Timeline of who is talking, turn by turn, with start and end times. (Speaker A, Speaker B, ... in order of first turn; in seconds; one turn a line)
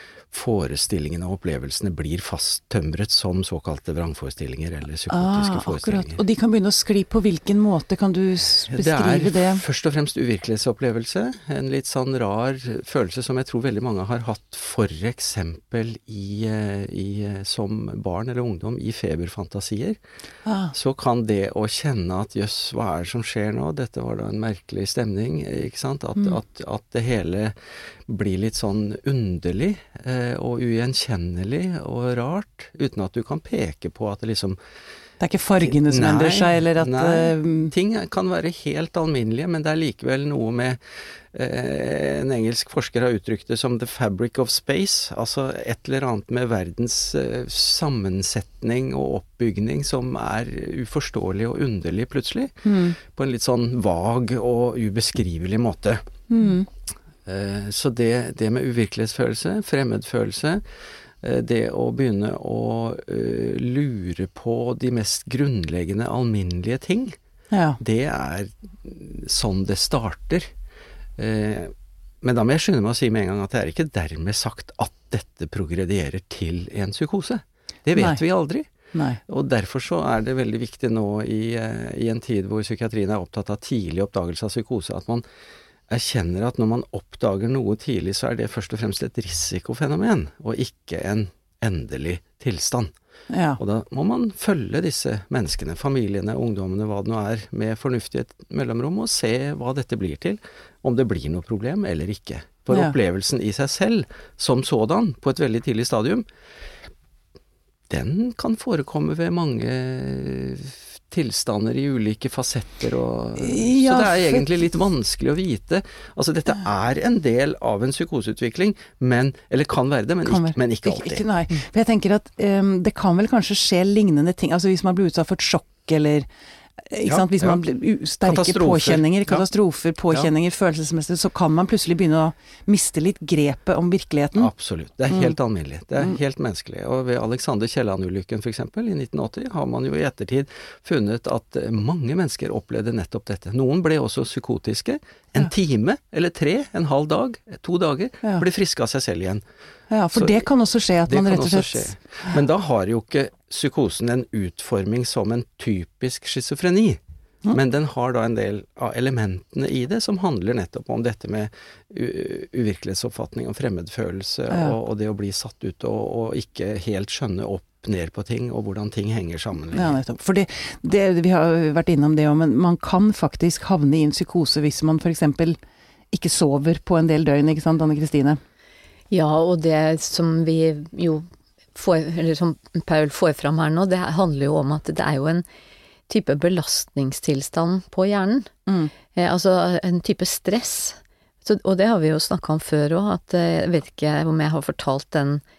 Speaker A: 0.3-6.2
Speaker B: 5.1-9.6
Speaker A: 8.7-20.0
Speaker B: 20.4-20.7
Speaker A: 20.7-27.5
Speaker A: 28.1-34.6
Speaker B: 35.2-37.7
Speaker A: 35.6-40.8
Speaker A: 41.3-56.0
Speaker B: 52.6-53.0
Speaker B: 56.3-56.7
Speaker A: 57.2-60.6
Speaker A: 61.2-67.2
Speaker B: 67.5-67.8
Speaker A: 67.8-70.5
Speaker A: 71.2-78.7
Speaker B: 78.9-79.2
Speaker A: 79.2-85.2
Speaker A: 85.9-92.9
Speaker B: 93.3-93.6
Speaker A: 93.6-106.2
Speaker A: 107.9-121.2
Speaker B: 113.4-114.5
Speaker B: 120.2-126.3
Speaker B: 126.8-134.5
Speaker A: 127.0-127.6
Speaker A: 128.2-129.5
Speaker A: 134.4-149.4
Speaker B: 135.1-135.3
Speaker B: 149.9-151.9
Speaker A: 150.1-150.5
Speaker A: 151.1-157.0
Speaker A: 157.5-169.9
Speaker B: 164.5-164.8
Speaker B: 169.7-175.6
Speaker B: 176.1-178.4
Speaker C: 179.1-185.4
Speaker C: 186.1-188.5
Speaker B: 188.7-188.9
Speaker C: 189.1-195.4